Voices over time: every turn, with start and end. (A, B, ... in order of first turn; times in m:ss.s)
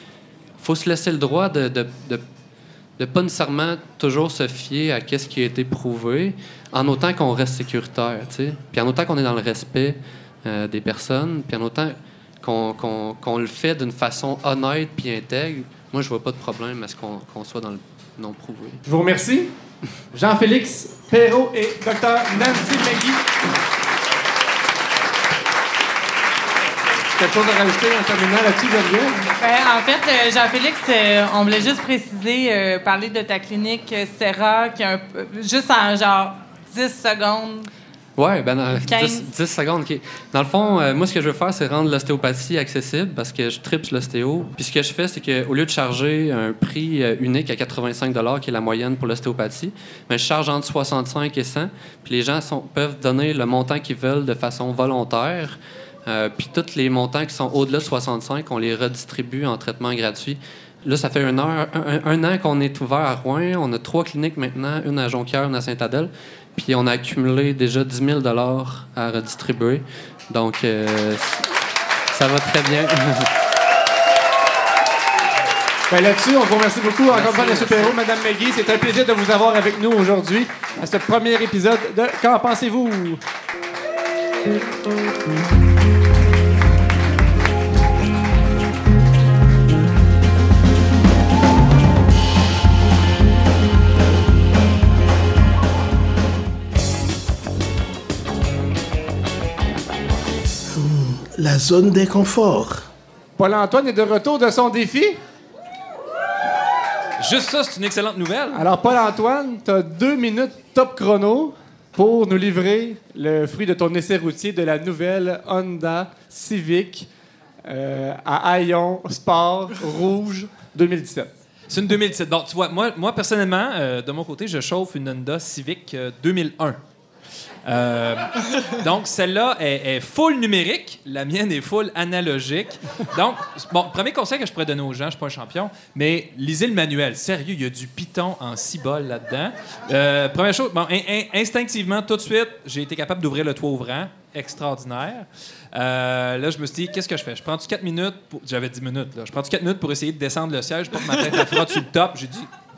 0:00.6-0:02.2 A
0:03.0-0:18.8 A
0:18.8-0:19.5 B
0:20.1-0:23.2 B
0:27.2-0:29.3 B
0:29.4-0:37.7 C
0:38.2-1:11.5 A
0:38.8-0:39.3 C
1:12.1-1:13.3 A
1:15.9-1:23.2 B
1:17.1-1:18.0 A
1:40.8-1:42.9 D
1:43.4-1:45.2 B
1:47.2-1:48.7 E
1:48.5-1:57.1 B
1:57.7-2:01.3 B
2:01.7-2:06.8 E
2:07.7-2:32.5 E